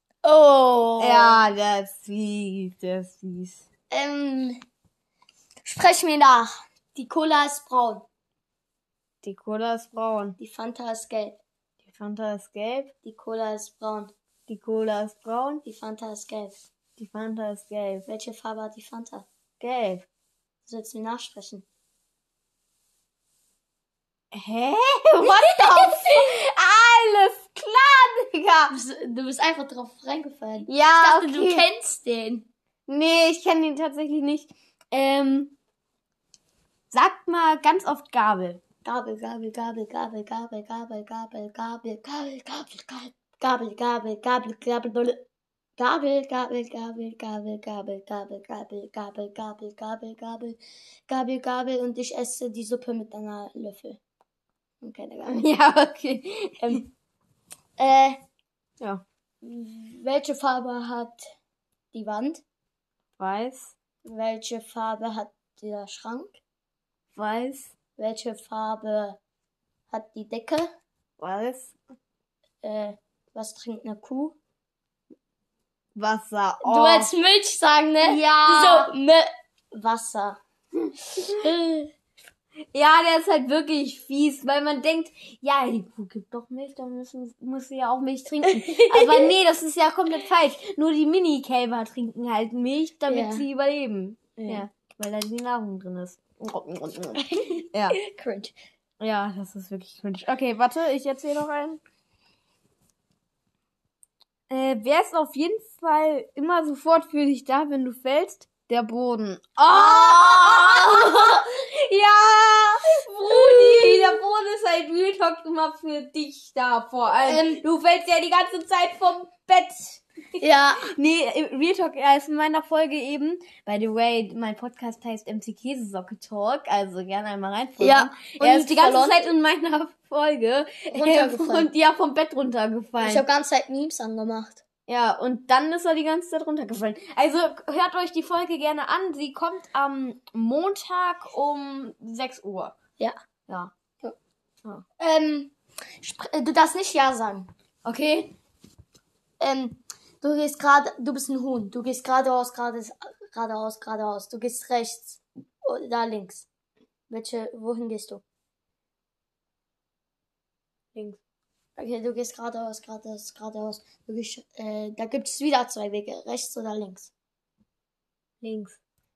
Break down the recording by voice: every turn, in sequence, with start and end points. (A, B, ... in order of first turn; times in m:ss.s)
0:00.2-0:01.4 A
0:01.0-0:03.6 B
0:03.9-0:04.6 A
0:05.6-0:08.1 A
0:09.2-0:10.4 B
0:10.4-0:11.4 A
0:11.9-0:12.9 B
0:13.0-0:14.1 A
0:14.5-0:15.6 B
0:15.6-0:16.6 A
0:17.0-0:18.1 B
0:18.1-0:19.3 A
0:19.6-0:20.1 B
0:20.6-0:21.6 A
0:24.3-0:28.8 B
0:25.2-0:26.2 A
0:28.7-0:32.5 A
0:30.7-0:31.7 B
0:32.9-0:35.5 B
0:36.9-0:38.6 B
0:38.8-0:45.2 A
0:45.8-0:54.0 A
0:54.8-0:55.4 A
0:55.3-0:56.8 B
0:56.6-0:56.9 A
0:57.8-0:58.2 A
0:59.4-1:01.2 A
1:01.9-1:02.4 A
1:03.2-1:03.8 B
1:04.0-1:06.4 A
1:07.2-1:07.7 B
1:08.0-1:09.2 A
1:09.9-1:10.7 A
1:11.2-1:11.8 B
1:12.6-1:14.4 A
1:16.0-1:17.1 B
1:16.6-1:20.4 A
1:18.0-1:18.9 B
1:21.2-1:21.9 A
1:22.7-1:38.0 B
1:28.5-1:29.3 A
1:33.1-1:33.5 A
1:34.4-1:34.7 A
1:37.2-1:38.6 A
1:39.0-1:41.8 B
1:44.5-2:13.2 B
1:49.7-1:51.4 A
1:53.2-1:54.2 A
1:57.2-1:57.6 A
2:00.4-2:00.9 A
2:07.8-2:09.3 A
2:10.9-2:11.7 A
2:13.0-2:14.6 A
2:14.9-2:22.8 B
2:25.0-2:27.5 A
2:27.8-2:28.3 B
2:29.4-2:36.5 A
2:37.1-2:38.2 A
2:41.0-2:41.2 B
2:41.8-2:47.1 A
2:48.4-2:48.8 B